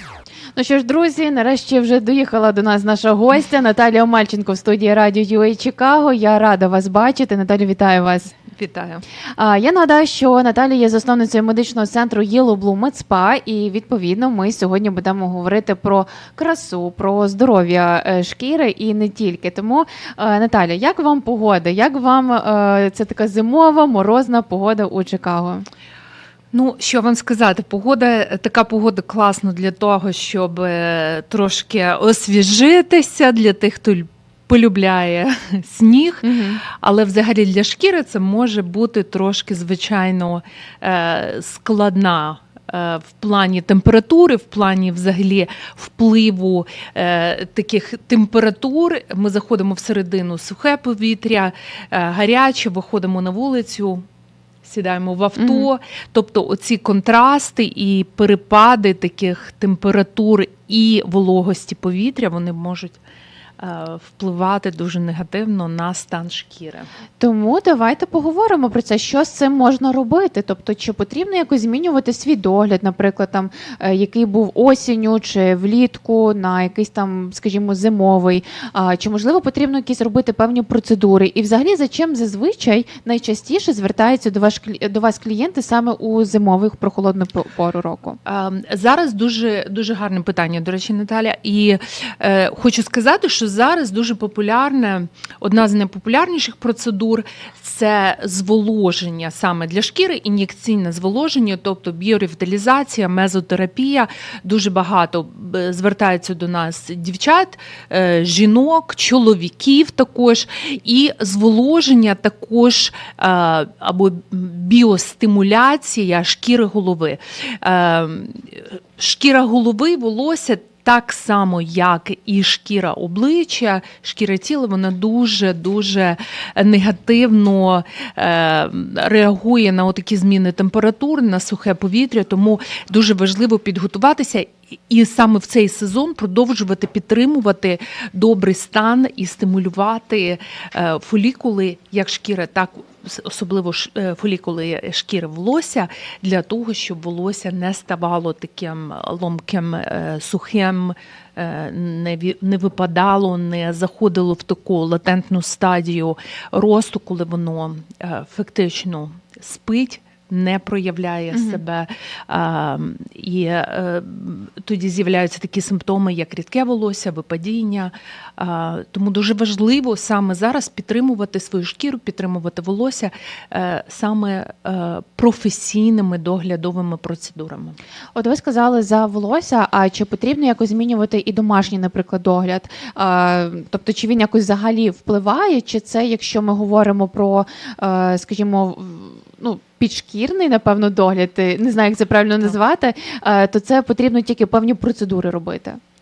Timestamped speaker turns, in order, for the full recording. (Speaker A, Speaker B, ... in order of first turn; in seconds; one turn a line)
Speaker A: 0.6-8.4
Speaker B: 8.5-9.0
Speaker A: 9.4-25.7
Speaker B: 26.5-54.0
Speaker A: 36.2-36.6
Speaker B: 54.6-63.0
Speaker A: 55.4-55.7
Speaker B: 63.6-66.9
Speaker A: 67.2-88.2
Speaker B: 88.3-177.8
Speaker A: 161.3-161.6
Speaker A: 178.2-195.8